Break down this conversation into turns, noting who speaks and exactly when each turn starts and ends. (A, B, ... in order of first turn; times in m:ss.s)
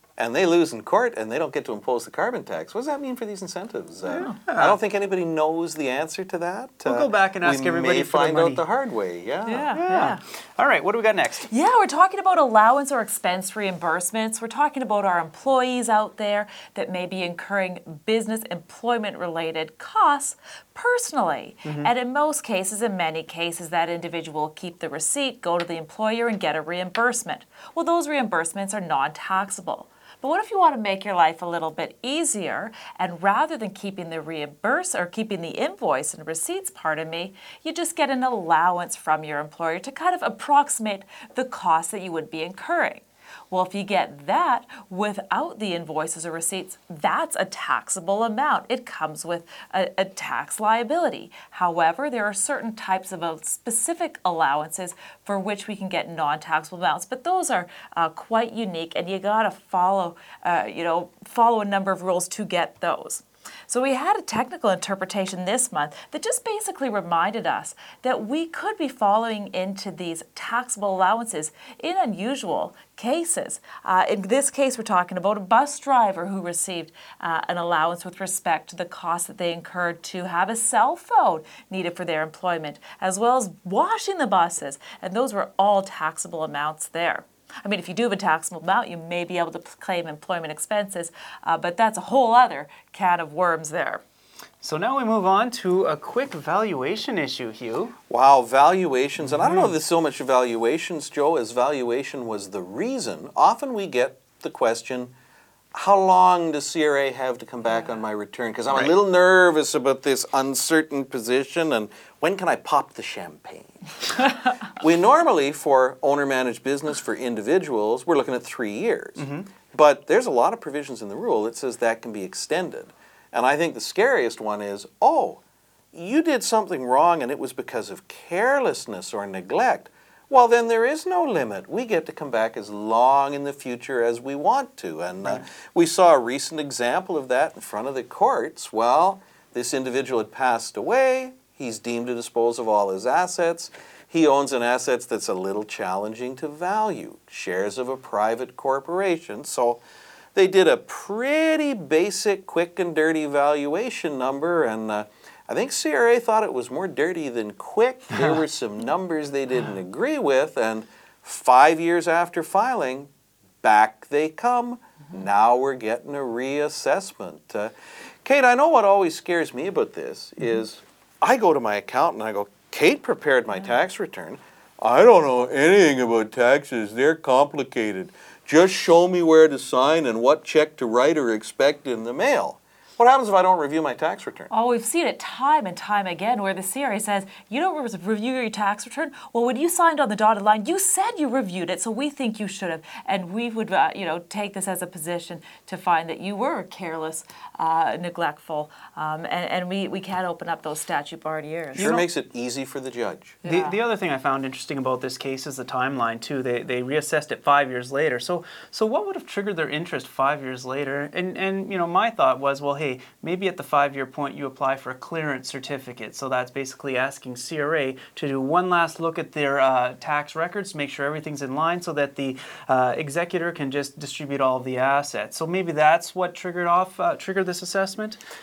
0:00.2-0:09.7 A
0:04.1-0:04.8 B
0:06.8-0:08.6 B
0:09.5-0:10.2 C
0:09.7-0:11.5 B
0:11.5-1:34.0 C
0:21.6-0:21.9 B
1:34.6-1:38.0 B
1:38.1-1:45.1 A
1:39.3-1:39.7 B
1:45.7-1:54.2 A
1:54.8-2:05.4 A
1:59.2-1:59.5 B
2:05.9-2:29.8 A
2:30.4-2:43.1 A
2:43.6-2:47.7 A
2:48.2-3:04.5 A
3:04.5-3:22.0 C
3:21.8-3:22.0 B
3:21.8-3:23.4 A
3:23.4-3:23.8 C
3:23.4-3:48.2 B